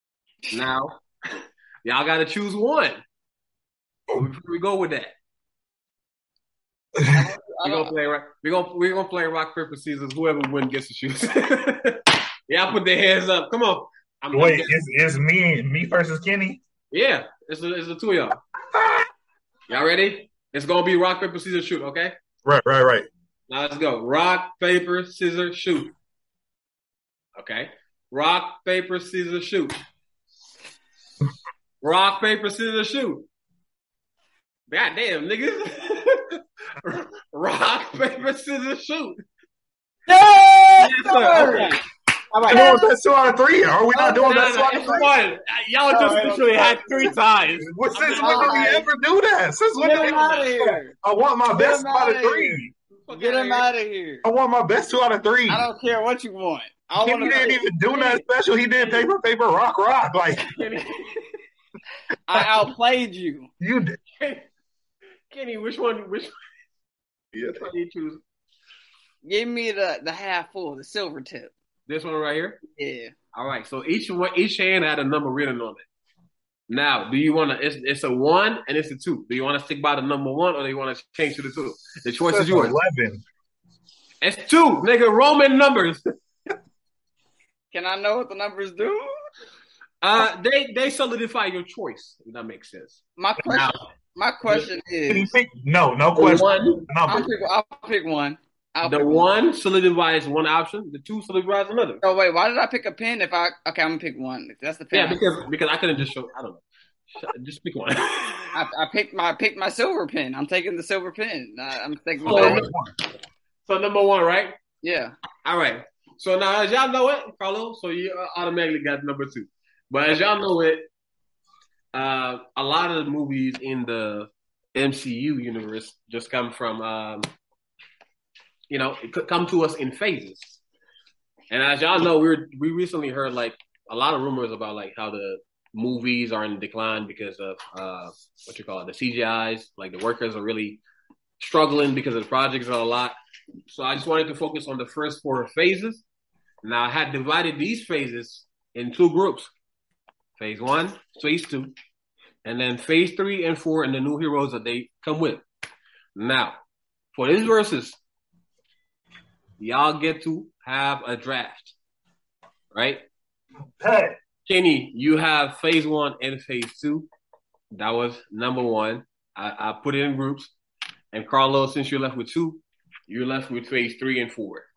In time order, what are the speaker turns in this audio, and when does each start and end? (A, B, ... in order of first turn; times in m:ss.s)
0:00.5-0:03.0 A
0:04.1-0:05.1 A
0:07.0-0:07.3 B
0:07.1-0:07.9 C
0:07.6-0:14.7 A
0:14.3-0:16.6 B
0:16.9-0:18.4 A
0:19.7-0:22.1 A
0:22.4-0:23.1 B
0:23.5-0:25.9 A
0:27.4-0:29.8 A
0:31.8-0:33.3 A
0:34.7-0:39.2 A
0:40.1-0:41.8 C
0:40.8-0:41.8 A
0:42.3-0:42.8 C
0:42.4-0:42.7 A
0:42.5-0:45.1 B
0:43.9-0:45.1 C
0:44.2-0:48.8 A
0:45.9-0:47.1 C
0:47.6-0:52.7 B
0:48.2-0:48.9 C
0:49.8-0:50.9 C
0:51.5-0:54.2 C
0:53.1-0:53.7 A
0:54.2-0:55.7 B
0:55.5-0:58.2 C
0:57.0-1:00.5 B
1:00.4-1:01.2 A
1:02.3-1:03.5 C
1:03.6-1:04.0 B
1:04.2-1:04.4 A
1:05.3-1:06.3 A
1:07.4-1:08.2 A
1:09.2-1:11.5 C
1:11.9-1:12.6 A
1:12.8-1:13.1 C
1:13.3-1:15.8 A
1:16.7-1:22.8 A
1:22.3-1:23.2 B
1:24.2-1:26.0 A
1:27.7-1:29.1 C
1:30.0-1:33.8 A
1:33.2-1:35.3 C
1:35.1-1:37.3 B
1:36.2-1:36.9 A
1:37.1-1:39.3 C
1:38.8-1:42.0 A
1:42.0-1:45.2 C
1:44.9-1:46.6 A
1:47.1-1:48.6 A
1:48.5-1:52.7 C
1:52.2-1:52.7 A
1:52.2-1:52.9 B
1:53.7-1:54.5 A
1:54.8-1:55.1 C
1:55.4-2:00.9 A
2:01.9-2:07.3 A
2:08.7-2:10.6 A
2:11.5-2:20.8 A
2:21.4-2:23.2 A
2:23.7-2:26.0 A
2:26.6-2:29.5 A
2:30.4-2:31.7 A
2:32.4-2:35.4 A
2:36.2-2:36.5 A
2:37.2-2:38.0 A
2:39.6-2:41.7 A
2:42.7-2:43.0 A
2:43.8-2:44.2 B
2:44.5-2:47.1 A
2:47.7-2:50.5 A
2:51.1-2:54.7 A